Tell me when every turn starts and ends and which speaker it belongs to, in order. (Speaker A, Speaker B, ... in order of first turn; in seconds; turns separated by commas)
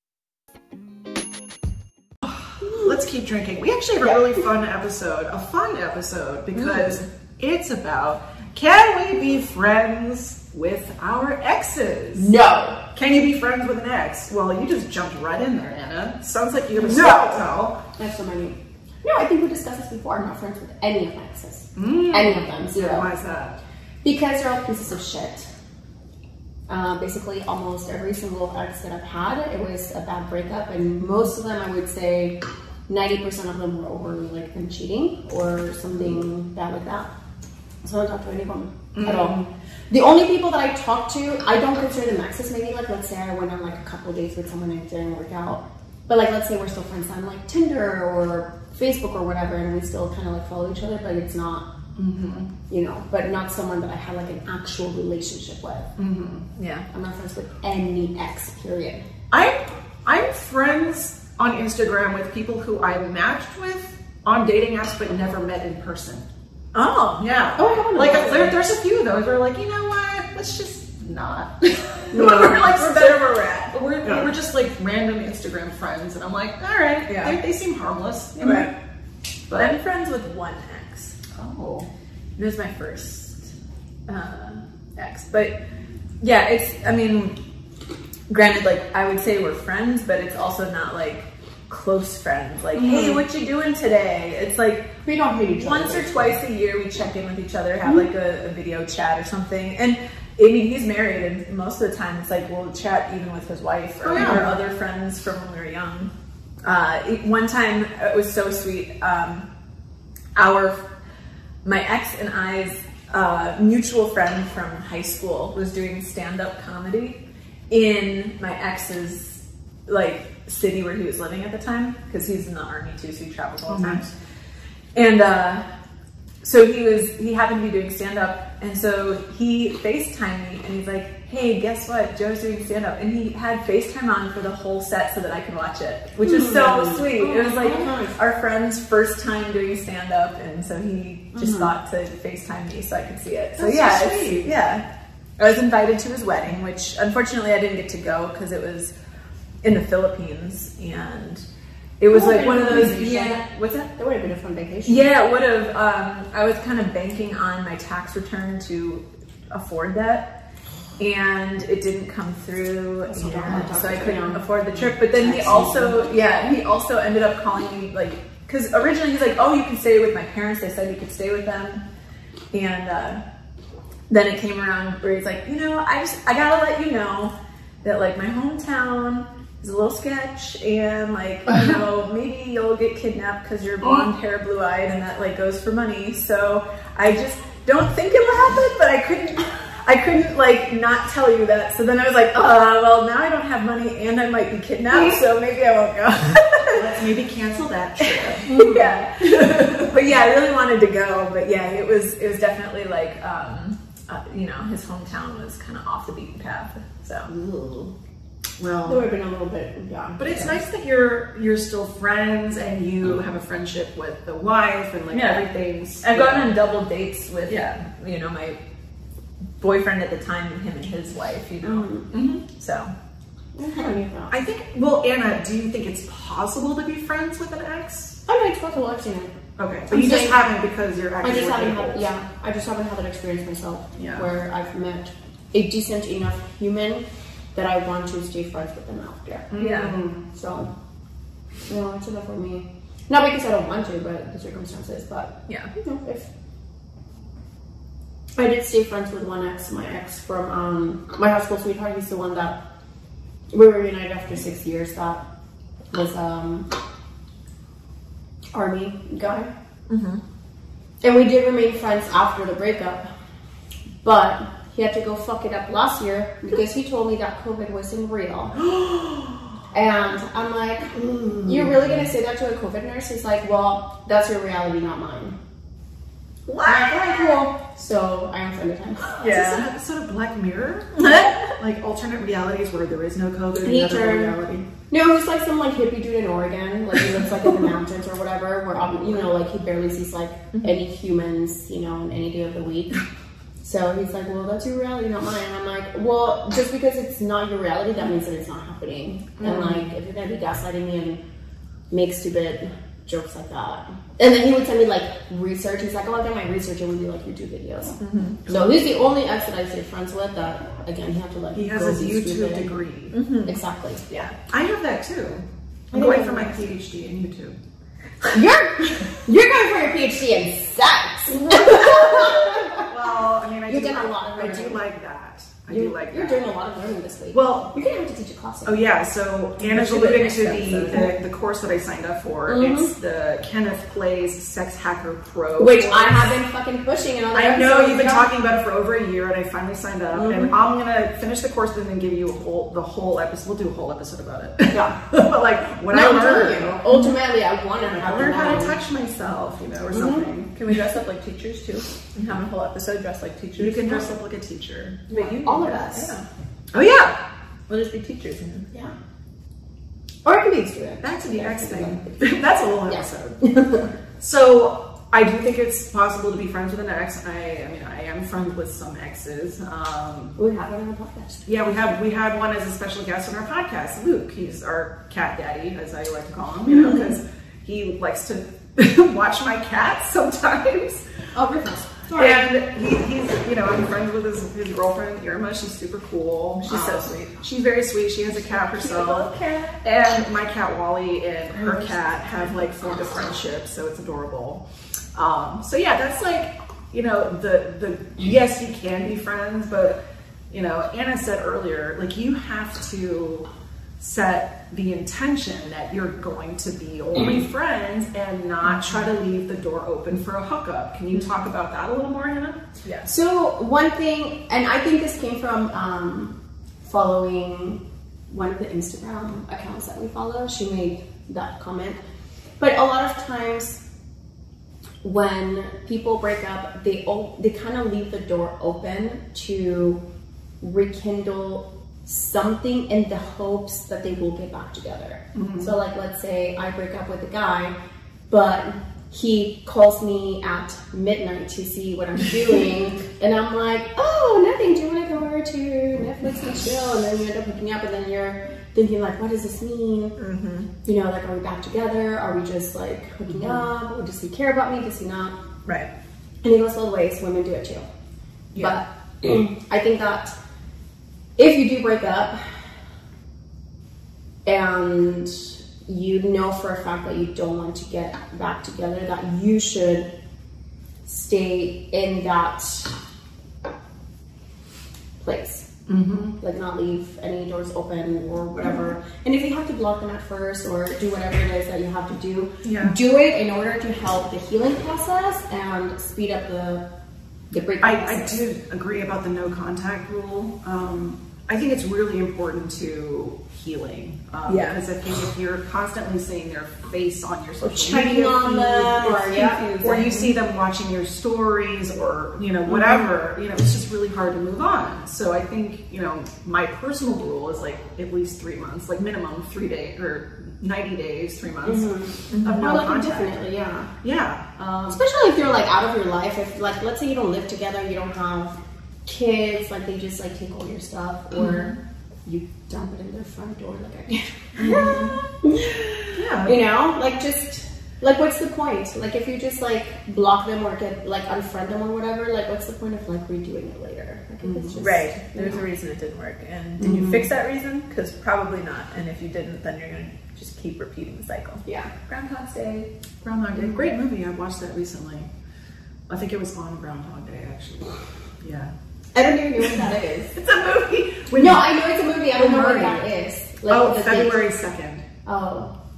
Speaker A: 2.3-12.3, Speaker B: 2.6-2.9, Speaker B: 12.2-12.8, Speaker A: 12.9-17.8, Speaker B: 16.8-23.1, Speaker A: 21.8-23.6, Speaker B: 24.0-25.5, Speaker B: 26.7-37.1, Speaker B: 37.8-51.7, Speaker A: 39.0-39.5, Speaker A: 52.0-52.5, Speaker B: 52.7-55.9, Speaker A: 56.0-56.5, Speaker C: 56.6-56.9, Speaker B: 56.9-59.0, Speaker A: 59.3-66.3, Speaker C: 66.7-67.3, Speaker A: 67.2-78.7, Speaker B: 67.6-68.6, Speaker B: 72.1-72.6, Speaker C: 72.6-74.2, Speaker C: 77.1-77.4, Speaker C: 78.4-78.7, Speaker A: 79.5-79.8, Speaker C: 79.6-81.2, Speaker A: 81.3-81.9, Speaker C: 82.4-83.5, Speaker C: 84.1-85.6, Speaker C: 86.2-87.4, Speaker C: 88.3-94.9, Speaker A: 92.8-93.1, Speaker B: 95.0-96.4, Speaker C: 95.5-106.1, Speaker A: 104.0-104.5, Speaker B: 104.2-104.5, Speaker C: 106.6-109.5, Speaker C: 110.4-110.8, Speaker C: 111.6-124.1, Speaker A: 123.7-124.1, Speaker C: 125.0-125.7, Speaker C: 126.4-144.8, Speaker B: 136.2-138.2, Speaker B: 141.3-141.7, Speaker A: 143.6-144.6, Speaker C: 145.4-148.9, Speaker C: 149.6-151.5, Speaker C: 152.0-153.9, Speaker B: 152.1-155.1, Speaker C: 154.9-160.3, Speaker C: 161.0-171.8, Speaker B: 163.1-164.4, Speaker A: 163.2-164.2, Speaker B: 165.0-166.0, Speaker C: 172.5-173.2, Speaker C: 174.1-196.9, Speaker A: 196.7-198.6, Speaker C: 198.0-207.3, Speaker B: 198.5-199.0, Speaker B: 207.4-207.9, Speaker A: 208.6-209.1, Speaker B: 208.8-210.6, Speaker A: 210.2-216.6, Speaker C: 215.1-215.5, Speaker C: 216.0-218.6, Speaker A: 217.5-217.7, Speaker C: 219.6-222.9, Speaker B: 221.6-222.1, Speaker A: 222.1-222.4, Speaker B: 223.6-224.3, Speaker A: 224.3-228.2, Speaker B: 228.3-229.4, Speaker A: 229.6-232.0, Speaker B: 229.9-230.4, Speaker B: 231.2-239.5, Speaker A: 234.0-234.3, Speaker A: 239.5-240.2, Speaker C: 239.6-240.0, Speaker B: 240.3-240.7, Speaker B: 241.7-246.3, Speaker B: 248.4-252.6, Speaker B: 253.5-255.2, Speaker B: 255.9-256.7, Speaker B: 258.5-259.5, Speaker C: 259.9-260.2, Speaker B: 261.0-263.1, Speaker B: 264.0-268.6, Speaker A: 268.6-269.5, Speaker B: 269.7-270.9, Speaker A: 270.9-272.0, Speaker B: 271.4-275.4, Speaker A: 276.5-277.4, Speaker B: 276.6-279.2, Speaker A: 279.1-284.6, Speaker C: 279.2-279.6, Speaker C: 281.0-281.6, Speaker B: 283.6-293.0, Speaker B: 293.6-301.2, Speaker A: 299.4-299.9, Speaker B: 301.9-312.7, Speaker C: 308.0-308.4, Speaker A: 311.6-313.2, Speaker C: 313.1-313.6, Speaker B: 313.4-314.1, Speaker C: 314.1-314.4, Speaker A: 314.5-317.6, Speaker B: 315.9-316.7, Speaker B: 318.3-322.9, Speaker A: 322.3-326.4, Speaker B: 323.7-324.8, Speaker B: 325.7-328.9, Speaker A: 327.3-327.7, Speaker A: 328.6-336.3, Speaker B: 329.6-331.1, Speaker B: 332.5-332.9, Speaker B: 335.6-338.3, Speaker A: 337.3-346.8, Speaker B: 340.1-340.5, Speaker B: 344.7-345.0, Speaker B: 345.9-348.8, Speaker A: 347.8-350.6, Speaker B: 349.9-350.3, Speaker C: 350.6-354.1, Speaker A: 353.6-355.1, Speaker B: 355.1-356.1, Speaker C: 355.1-356.3, Speaker A: 356.7-357.2, Speaker C: 357.7-358.7, Speaker B: 360.2-363.9, Speaker A: 361.0-363.6, Speaker A: 364.2-370.4, Speaker B: 370.4-371.4, Speaker A: 371.5-381.1, Speaker B: 381.3-382.5, Speaker A: 382.1-389.3, Speaker C: 386.6-387.4, Speaker C: 388.7-389.8, Speaker A: 389.8-394.6, Speaker B: 391.6-392.3, Speaker A: 395.1-400.0, Speaker A: 400.5-403.5, Speaker A: 404.0-413.0, Speaker B: 413.1-422.0, Speaker B: 422.6-423.8, Speaker B: 425.0-430.0, Speaker B: 430.6-437.8, Speaker A: 435.4-435.7, Speaker B: 438.3-450.2, Speaker C: 450.2-450.7, Speaker B: 450.9-455.4, Speaker B: 456.4-457.9, Speaker B: 458.6-460.4, Speaker B: 461.4-462.4, Speaker B: 464.5-470.1, Speaker B: 471.1-472.9, Speaker B: 475.2-475.7, Speaker A: 475.9-476.4, Speaker B: 476.4-486.9, Speaker A: 482.6-482.9, Speaker B: 487.5-488.4, Speaker A: 487.8-498.9, Speaker C: 494.5-494.8, Speaker B: 497.6-499.7, Speaker C: 498.3-500.3, Speaker A: 499.8-513.4, Speaker B: 502.7-503.1, Speaker B: 511.6-513.9, Speaker C: 512.3-512.7, Speaker A: 514.0-515.0, Speaker B: 514.9-521.7, Speaker A: 521.3-521.8, Speaker B: 522.3-535.6, Speaker A: 524.6-525.2, Speaker A: 526.1-526.6, Speaker A: 534.4-534.8, Speaker C: 534.8-542.9, Speaker B: 536.8-537.3, Speaker B: 541.6-541.9, Speaker A: 543.2-545.3, Speaker A: 546.1-548.7, Speaker B: 549.1-550.3, Speaker A: 550.4-551.7, Speaker B: 551.4-554.5, Speaker A: 552.3-553.0, Speaker A: 553.7-555.0, Speaker B: 555.3-555.7